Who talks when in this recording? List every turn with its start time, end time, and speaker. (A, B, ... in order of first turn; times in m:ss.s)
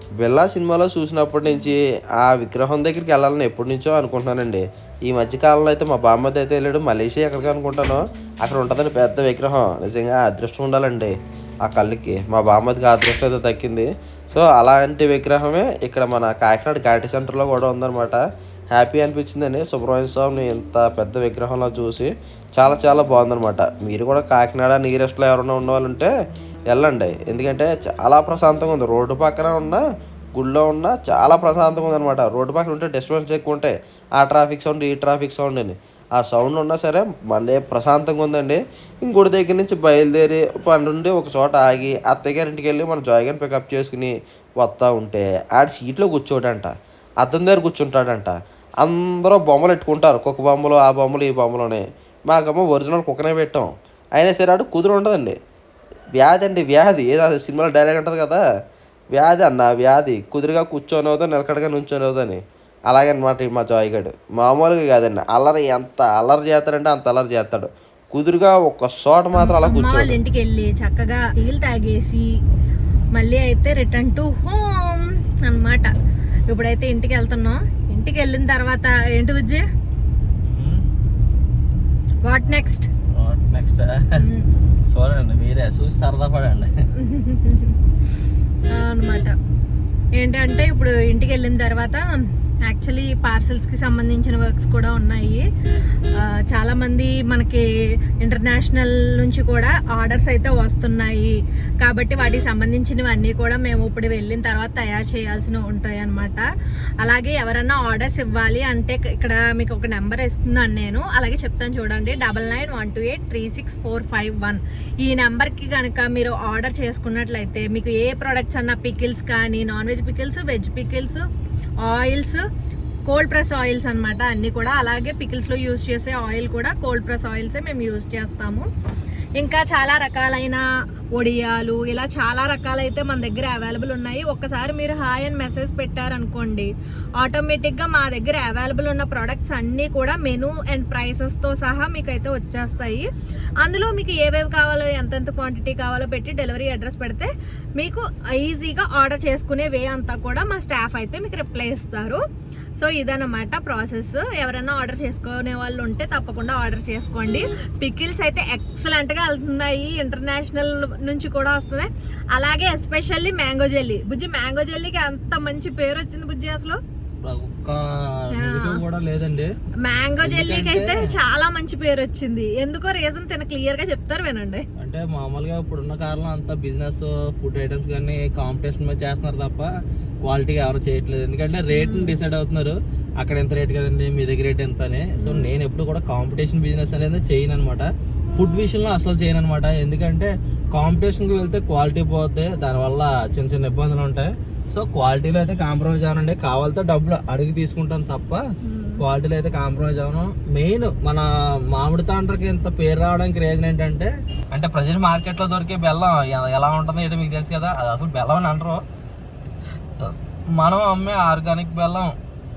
0:00.2-0:26.1 A
0:26.7-0:29.8 A
0:30.3-0:55.4 A
0:56.2-0:58.4 A
0:59.1-1:10.2 A
1:09.4-1:12.2 B
1:13.1-1:15.9 B
1:16.5-1:19.6 B
1:20.4-1:20.8 C
1:22.2-1:22.9 B
1:23.2-1:24.1 C
1:24.2-1:24.4 B
1:24.9-1:26.7 C
1:27.0-1:27.7 B
1:28.7-1:29.3 B
1:30.2-1:32.0 B
1:32.7-1:35.4 B
1:36.5-1:37.6 B
1:38.2-1:46.4 B
1:47.0-2:01.2 B
2:01.8-2:02.4 B
2:03.1-2:08.6 B
2:09.4-2:10.6 B
2:11.2-2:16.7 B
2:17.2-2:23.1 B
2:23.6-2:32.2 B
2:32.8-2:46.8 B
2:47.2-2:49.5 C
2:48.3-2:48.8 B
2:49.8-2:54.6 B
2:50.2-2:51.1 C
2:54.8-2:59.7 C
3:00.2-3:18.4 C
3:01.7-3:02.2 B
3:05.2-3:05.5 B
3:18.6-3:19.0 B
3:19.0-3:28.8 C
3:30.0-3:32.1 C